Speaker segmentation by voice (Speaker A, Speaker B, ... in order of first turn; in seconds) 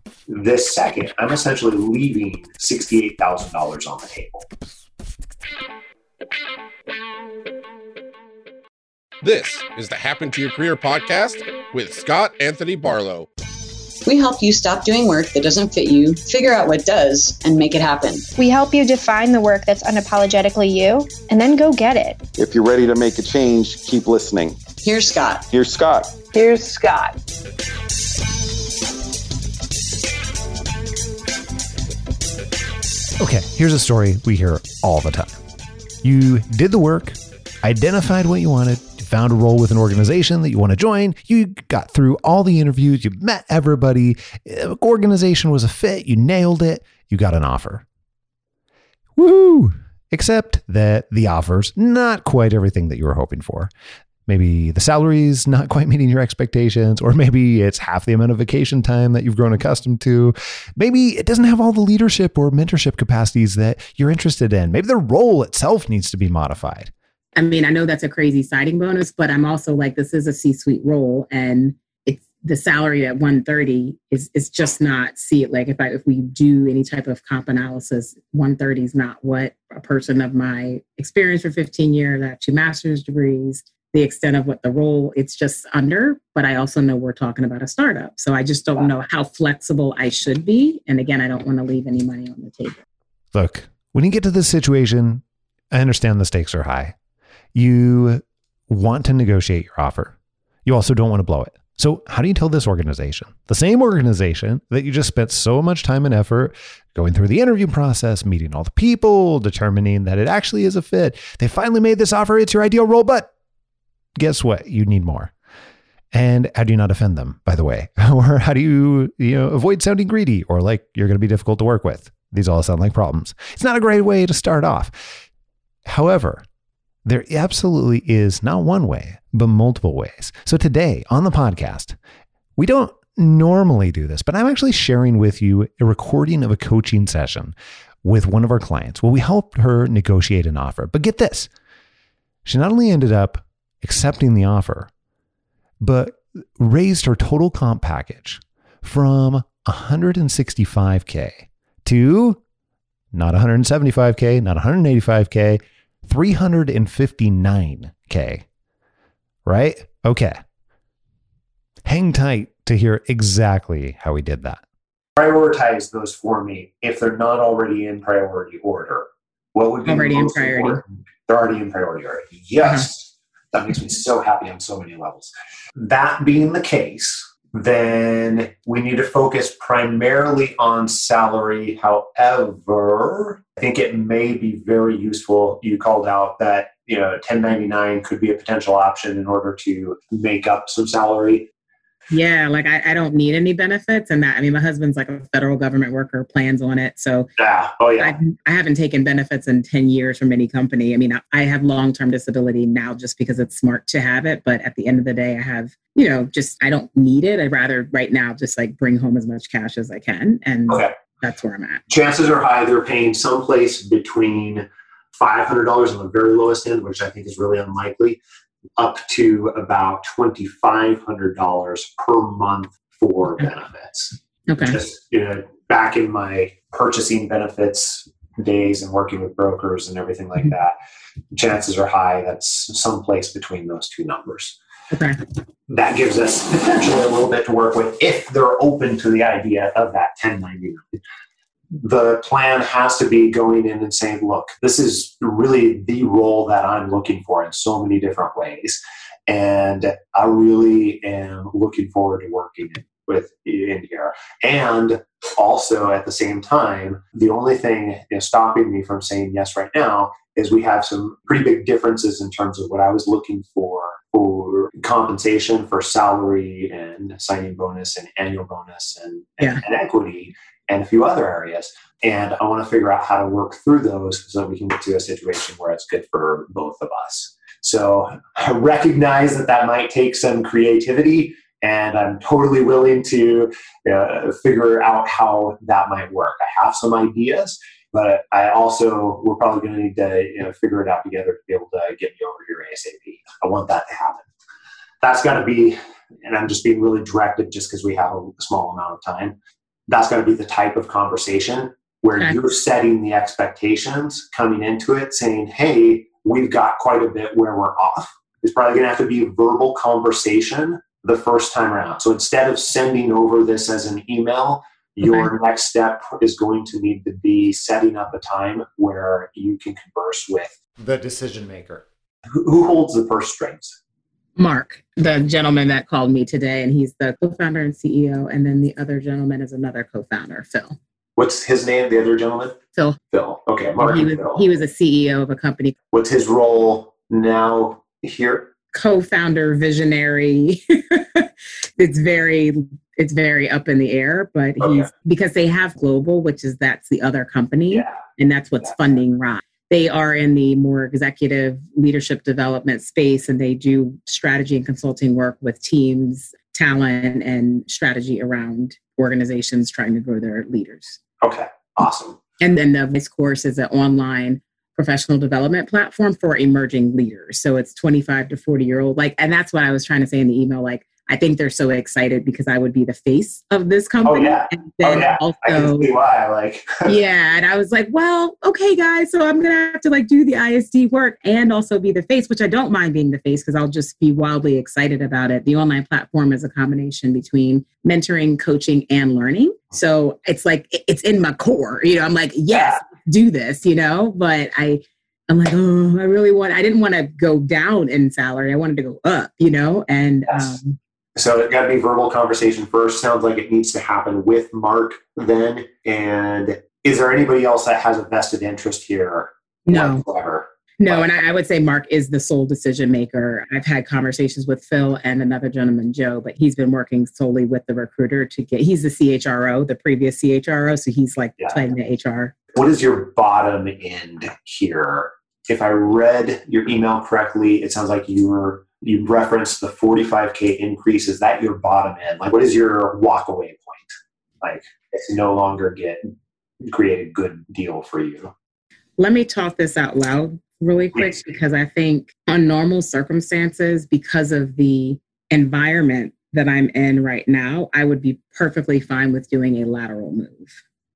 Speaker A: 0.3-4.5, 165.2-191.5, 197.4-198.2, 211.9-218.2, 218.8-230.7, 231.3-234.6, 235.7-241.0, 241.8-294.2, 295.0-299.3, 299.9-320.6, 322.3-323.8, 331.2-332.6, 333.1-334.4, 335.9-338.5, 344.6-344.9, 347.7-348.0, 361.2-362.2, 374.0-376.9, 392.5-392.8, 400.3-400.6, 401.1-411.1, 422.5-433.9, 434.4-436.1, 436.7-438.3, 440.9-441.2
Speaker B: 9.2-13.3
Speaker C: 14.1-18.3, 24.8-25.4, 26.6-27.1
Speaker D: 18.3-22.2
Speaker E: 22.4-24.6, 25.5-26.2
Speaker F: 33.2-35.3, 36.0-47.8, 49.2-53.7, 54.3-66.9, 93.3-95.2, 95.7-96.9, 97.5-100.1, 100.7-113.3, 114.2-115.3, 116.1-124.9, 125.8-126.4, 127.0-131.9, 132.6-141.5, 142.4-144.9, 145.8-152.4, 153.1-158.4, 159.4-160.3, 161.9-164.6, 320.8-321.8
Speaker G: 67.3-92.8, 169.8-170.8, 172.6-172.9, 192.1-197.3, 198.0-211.8, 224.5-224.8, 234.9-235.2, 315.0-315.3, 324.4-330.8, 333.8-335.7, 338.7-361.0, 362.4-375.9, 376.8-400.8, 409.7-410.0, 410.8-422.3, 439.0-450.5